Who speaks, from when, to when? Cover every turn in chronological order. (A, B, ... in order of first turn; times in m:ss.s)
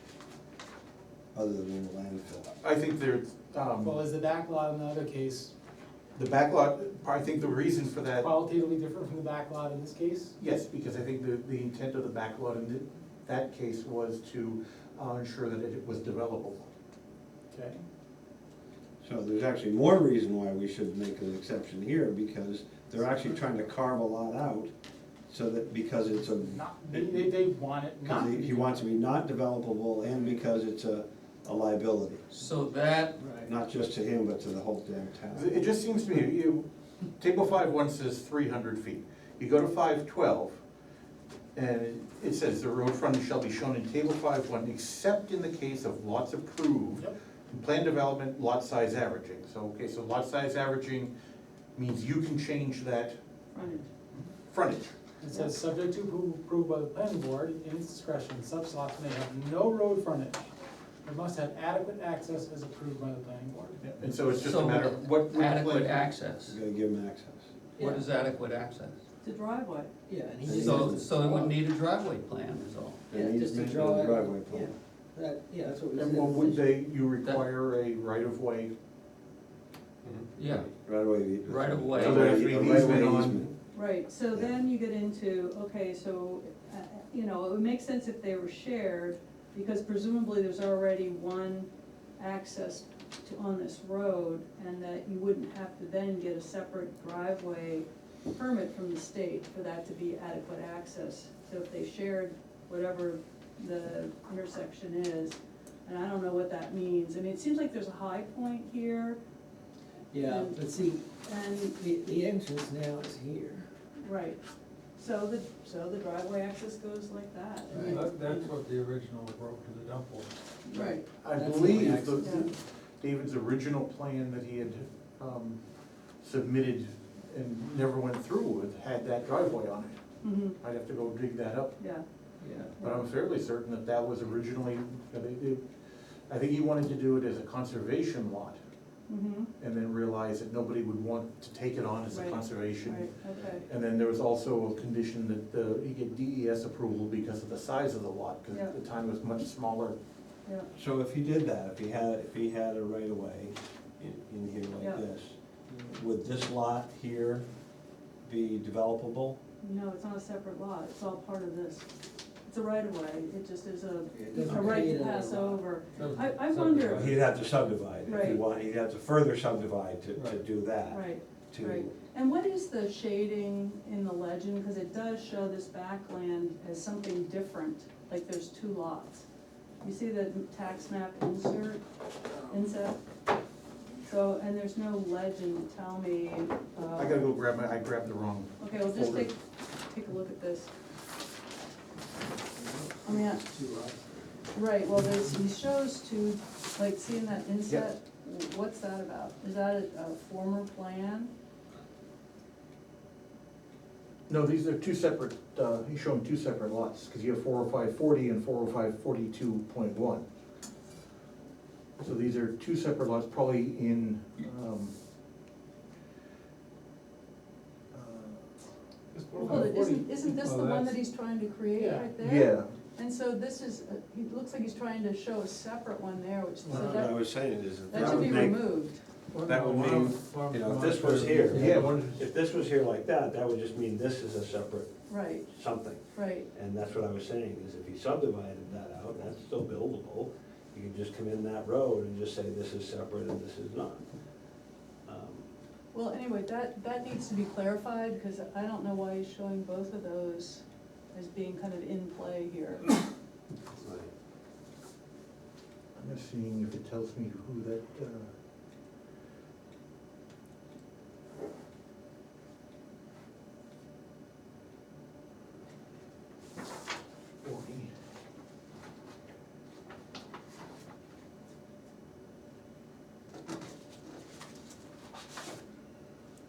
0:01.3-0:02.5 A
0:02.6-0:04.0 B
0:03.8-0:05.5 C
0:06.2-0:08.3 B
0:08.2-0:10.2 D
0:08.4-0:10.3 C
0:10.4-0:16.7 B
0:17.5-0:17.8 C
0:19.0-0:24.7 A
0:25.3-0:27.3 A
0:26.5-0:28.7 C
0:28.0-0:32.2 A
0:32.3-0:33.2 E
0:33.2-0:33.5 F
0:33.4-0:35.5 A
0:35.3-0:36.7 B
0:37.2-0:40.6 B
0:41.6-0:51.1 B
0:51.8-0:53.2 B
0:53.5-0:53.8 G
0:54.2-0:54.9 B
0:55.2-1:00.4 C
0:57.6-0:58.0 D
1:01.0-1:03.8 C
1:02.2-1:02.5 D
1:03.8-1:06.1 B
1:04.4-1:06.6 E
1:06.5-1:07.5 A
1:07.8-1:08.0 G
1:07.8-1:09.0 E
1:09.2-1:09.9 G
1:10.1-1:11.5 F
1:10.4-1:11.1 A
1:10.5-1:13.1 E
1:13.1-1:14.7 A
1:13.1-1:16.8 F
1:16.0-1:18.7 B
1:20.4-1:20.8 E
1:20.7-1:23.6 A
1:21.4-1:22.5 E
1:22.0-1:23.4 B
1:23.7-1:49.2 G
1:50.1-1:51.1 F
1:50.2-1:51.8 G
1:51.6-1:53.7 F
1:54.0-1:54.4 G
1:55.0-1:58.0 G
1:57.7-1:58.5 F
1:57.8-1:58.6 E
1:58.0-2:00.3 D
2:00.7-2:01.1 G
2:00.7-2:02.5 F
2:01.2-2:05.6 B
2:02.2-2:02.5 G
2:06.2-2:10.0 B
2:10.2-2:10.6 G
2:10.6-2:11.8 B
2:11.8-2:12.0 G
2:12.4-2:12.7 F
2:12.8-2:13.1 G
2:12.8-2:15.7 B
2:16.3-2:18.6 B
2:19.1-2:19.5 G
2:19.6-2:30.0 B
2:22.1-2:23.6 G
2:30.8-2:35.4 A
2:35.9-2:37.4 A
2:38.2-2:39.4 A
2:39.6-2:41.9 G
2:42.5-2:47.1 G
2:44.1-2:46.1 F
2:44.4-2:45.0 A
2:46.0-2:47.3 D
2:46.9-2:51.9 A
2:48.0-2:48.4 G
2:50.9-2:59.2 G
2:59.8-3:01.8 G
3:02.4-3:03.0 G
3:04.0-3:07.3 G
3:07.0-3:09.3 B
3:08.6-3:10.7 G
3:12.5-3:14.4 F
3:13.0-3:13.4 G
3:14.5-3:21.3 G
3:24.3-3:30.2 B
3:32.0-3:34.9 B
3:37.9-3:38.4 B
3:39.1-3:40.7 C
3:39.4-3:49.0 G
3:42.2-3:42.7 B
3:46.6-3:47.0 B
3:46.7-3:48.8 A
3:49.3-3:52.2 B
3:49.4-3:54.9 A
3:50.5-3:51.7 D
3:55.1-3:55.5 G
3:55.5-4:04.1 A
3:56.1-3:56.5 G
4:05.0-4:05.5 A
4:05.9-4:12.9 G
4:13.7-4:14.1 A
4:16.0-4:18.3 B
4:27.4-4:27.9 B